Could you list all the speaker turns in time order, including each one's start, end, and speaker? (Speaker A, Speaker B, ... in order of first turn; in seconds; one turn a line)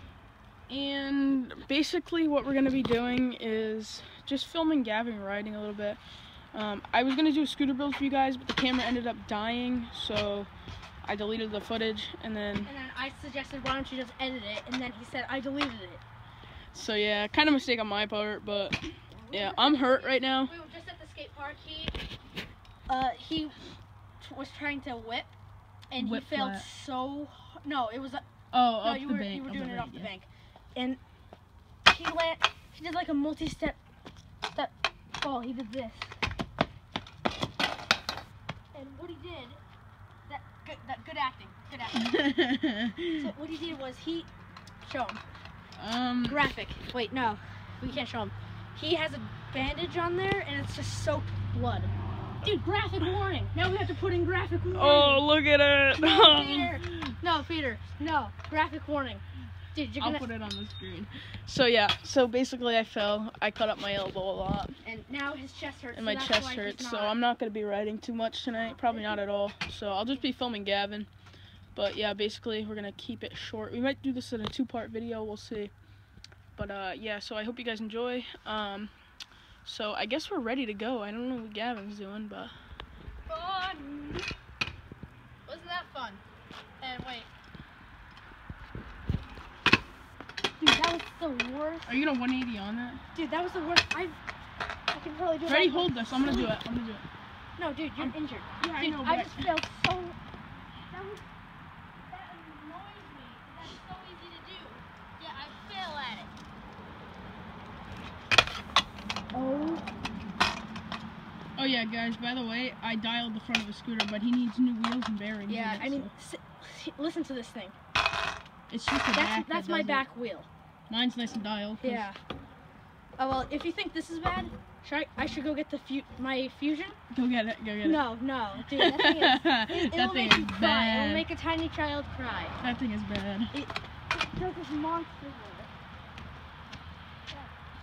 Speaker A: 0.7-6.0
Speaker A: 6.5-10.5
Speaker A: 11.0-12.7
Speaker B: 12.7-16.0
Speaker A: 16.7-20.5
Speaker B: 19.1-22.0
Speaker B: 22.9-23.6
Speaker B: 24.2-25.3
Speaker B: 25.9-28.2
Speaker A: 26.0-26.7
Speaker A: 28.5-30.1
Speaker B: 28.8-31.0
Speaker B: 31.9-33.8
Speaker B: 34.5-36.1
Speaker B: 38.7-39.6
Speaker B: 40.3-42.2
Speaker A: 42.0-43.3
Speaker B: 43.2-44.3
Speaker B: 44.8-45.2
Speaker A: 45.8-46.5
Speaker B: 46.3-51.9
Speaker B: 52.4-55.3
Speaker A: 54.7-57.2
Speaker B: 56.0-60.3
Speaker A: 60.0-64.8
Speaker B: 64.8-67.2
Speaker A: 65.9-71.1
Speaker A: 71.8-75.7
Speaker A: 76.6-78.9
Speaker A: 79.7-82.5
Speaker B: 83.3-84.3
Speaker B: 85.5-86.2
Speaker B: 86.8-87.3
Speaker B: 90.6-91.9
Speaker A: 91.9-93.0
Speaker B: 93.1-94.2
Speaker B: 94.9-96.5
Speaker A: 95.5-97.0
Speaker B: 97.6-100.2
Speaker A: 98.0-99.5
Speaker B: 100.9-101.2
Speaker B: 102.1-106.3
Speaker B: 109.3-109.8
Speaker A: 111.6-116.1
Speaker B: 115.5-117.8
Speaker A: 118.7-120.0
Speaker B: 119.1-120.5
Speaker A: 120.9-122.1
Speaker B: 121.8-122.2
Speaker B: 123.2-127.0
Speaker A: 127.1-128.0
Speaker B: 127.8-132.6
Speaker A: 128.7-131.3
Speaker A: 132.6-133.5
Speaker B: 133.5-135.7